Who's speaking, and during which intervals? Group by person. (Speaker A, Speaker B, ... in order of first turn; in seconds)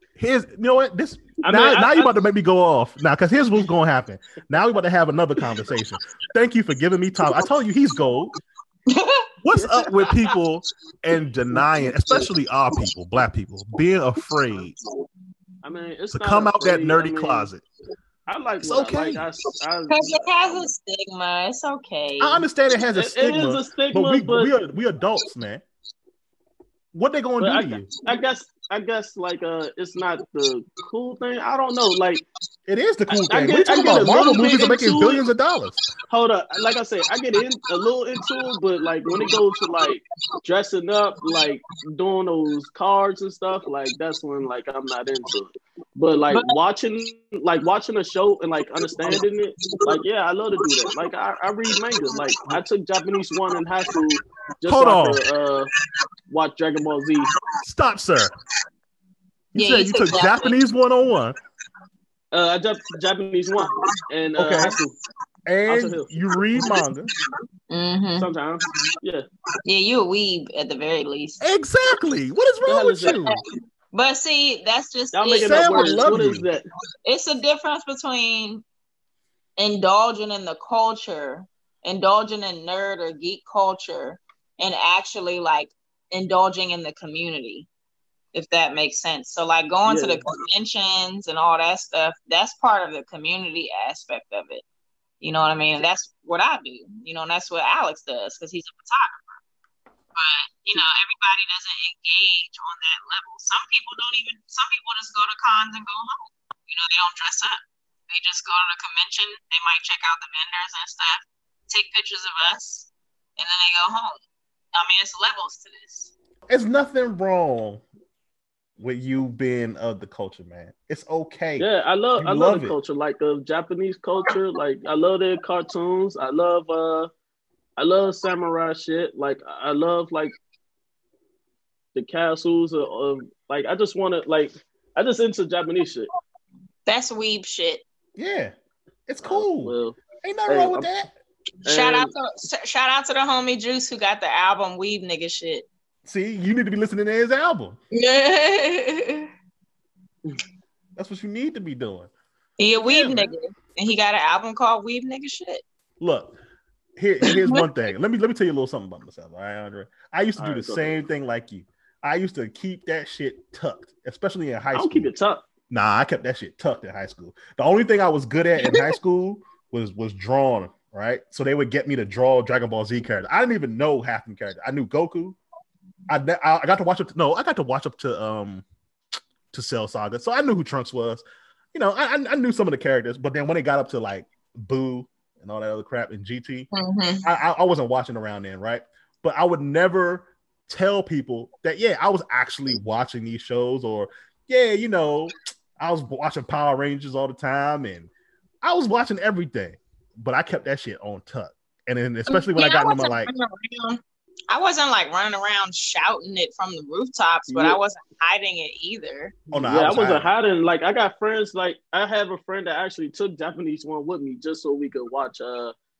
Speaker A: 0.1-8.3, 9.4-14.7, 16.1-17.6, 18.6-19.2, 22.2-25.6, 26.9-27.9, 32.7-35.8, 54.6-55.2, 57.6-58.3, 59.5-61.4, 64.4-64.7, 65.5-67.1, 71.4-73.4, 75.4-76.5, 116.5-117.8, 118.8-122.7, 138.2-138.5, 139.1-141.1, 146.0-147.8, 151.0-152.1, 152.8-153.3, 156.0-156.3, 157.0-165.1, 165.7-175.4, 176.1-178.6, 179.5-186.7, 187.2-198.1, 198.6-203.3, 209.5-210.3
Speaker B: 1.4-2.1, 15.6-17.5, 18.3-20.6, 22.9-24.5, 27.4-32.2, 33.1-35.2, 36.1-55.7, 56.3-57.3, 62.3-65.0, 65.7-66.1, 68.2-69.2, 72.6-73.2, 75.1-76.6, 89.9-90.2, 121.6-127.1, 127.8-130.3, 131.9-136.1, 139.2-140.9, 141.6-142.1, 160.4-161.0, 164.7-165.4, 207.5-207.8, 209.6-215.7
Speaker C: 8.9-9.3, 19.9-22.4, 46.3-46.6, 49.6-49.9, 52.0-52.5, 59.5-60.6, 67.7-68.8, 69.6-71.4, 73.0-73.4, 73.9-76.0, 77.0-78.6, 79.6-87.7, 88.3-94.6, 95.2-99.2, 100.1-114.2, 114.7-116.1, 136.8-137.8, 141.7-145.7, 147.9-149.3, 152.6-155.6, 157.2-157.6, 168.6-168.9, 186.7-187.2, 202.3-209.4